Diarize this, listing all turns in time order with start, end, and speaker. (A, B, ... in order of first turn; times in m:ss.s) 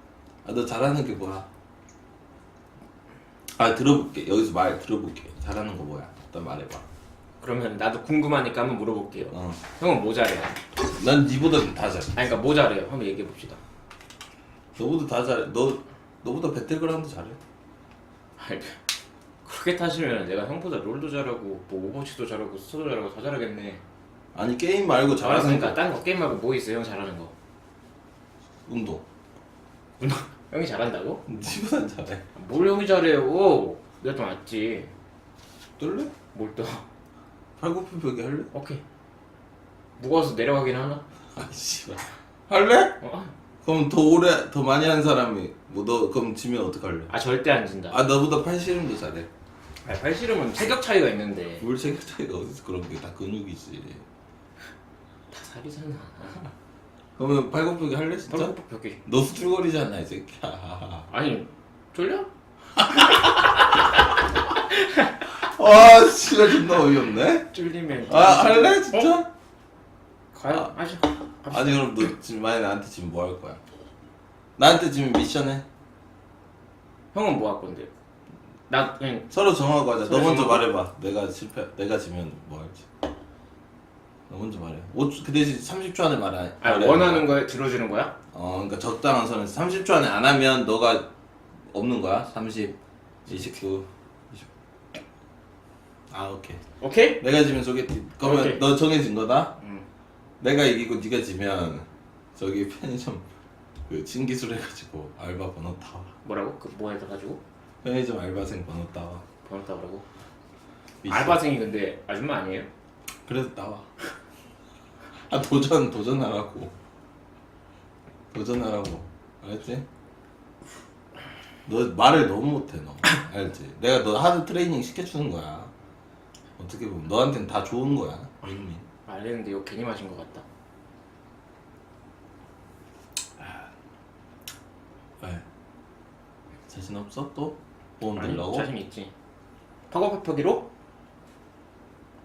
0:00.4-0:01.5 A
0:03.6-0:06.8 A
0:07.4-0:10.6 B
0:09.3-0:09.6 A
0:10.9-0:12.2 A
0:12.2-0:13.6 B
0:14.8-0:17.4 A
0:18.4-0:18.8 B
0:19.4-0:23.8 B
0:24.4-0:25.8 A
0:25.2-0:27.3 B
0:28.7-0:29.0 A
0:30.0-0:31.2 B
0:31.3-0:32.2 A
0:32.4-0:34.9 B
0:35.8-0:36.1 A
0:36.3-0:36.8 B
0:37.6-0:38.5 A
0:38.5-0:38.8 B
0:40.0-0:41.0 B
0:41.4-0:43.0 A
0:43.0-0:43.3 B
0:43.6-0:47.1 A
0:47.1-0:48.0 B
0:47.9-0:49.3 A
0:49.8-0:51.6 B
0:51.6-0:54.0 A
0:55.3-0:56.5 B
0:57.2-1:01.1 A
0:58.3-0:59.0 B
1:01.1-1:02.3 B
1:02.8-1:05.3 B
1:05.4-1:09.3 A
1:07.5-1:09.1 B
1:10.3-1:12.0 B
1:11.5-1:13.6 A
1:14.6-1:15.6 A
1:17.1-1:17.9 B
1:18.7-1:19.3 B
1:19.3-1:22.8 A
1:20.0-1:20.7 B
1:24.3-1:27.3 A
1:26.6-1:28.1 B
1:28.3-1:31.1 A
1:31.7-1:34.5 A
1:36.1-1:36.6 A
1:36.8-1:37.2 B
1:37.2-1:39.5 A
1:38.2-1:38.6 B
1:39.6-1:39.9 B
1:40.4-1:43.2 A
1:43.9-1:46.1 A
1:46.2-1:47.4 B
1:47.8-1:49.2 A
1:49.4-1:50.1 B
1:51.0-1:51.4 A
1:51.1-1:52.7 B
1:53.3-1:53.9 A
1:55.3-1:56.7 A
1:58.3-1:59.9 A
2:01.7-2:05.7 A
2:06.6-2:08.8 A
2:09.1-2:10.4 B
2:16.7-2:18.7 A
2:18.1-2:19.1 B
2:19.9-2:20.7 B